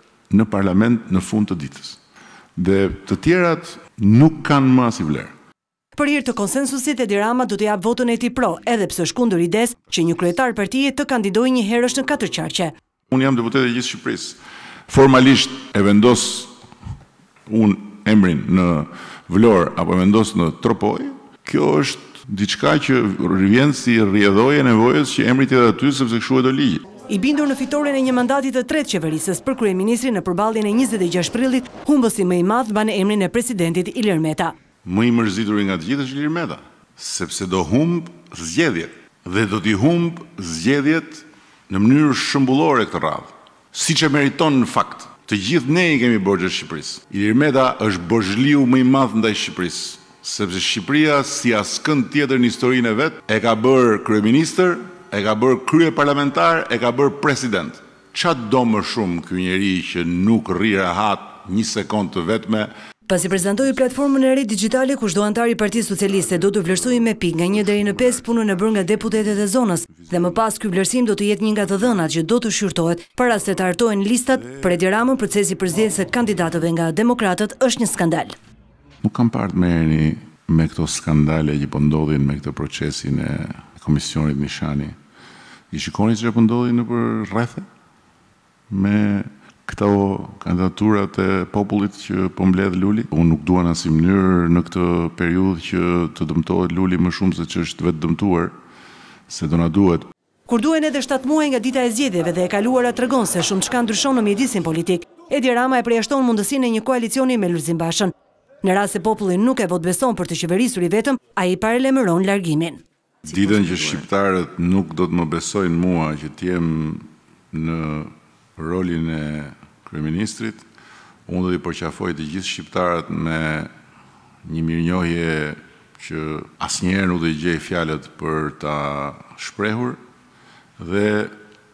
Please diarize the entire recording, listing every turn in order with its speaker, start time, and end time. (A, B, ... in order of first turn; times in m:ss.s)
0:00.3-0:02.0 A
0:02.6-0:05.3 A
0:06.0-0:12.7 B
0:13.1-0:16.5 A
0:17.5-0:26.8 A
0:27.0-0:34.5 B
0:34.8-1:02.7 A
1:03.1-1:18.3 B
1:06.2-1:08.8 A
1:09.9-1:10.4 A
1:19.0-1:24.9 A
1:25.7-1:27.6 A
1:28.7-1:38.5 A
1:39.3-1:40.1 A
1:40.5-1:48.1 B
1:48.6-1:52.8 B
1:53.2-2:00.6 A
2:01.3-2:03.7 A
2:04.4-2:10.0 A
2:10.8-2:11.3 A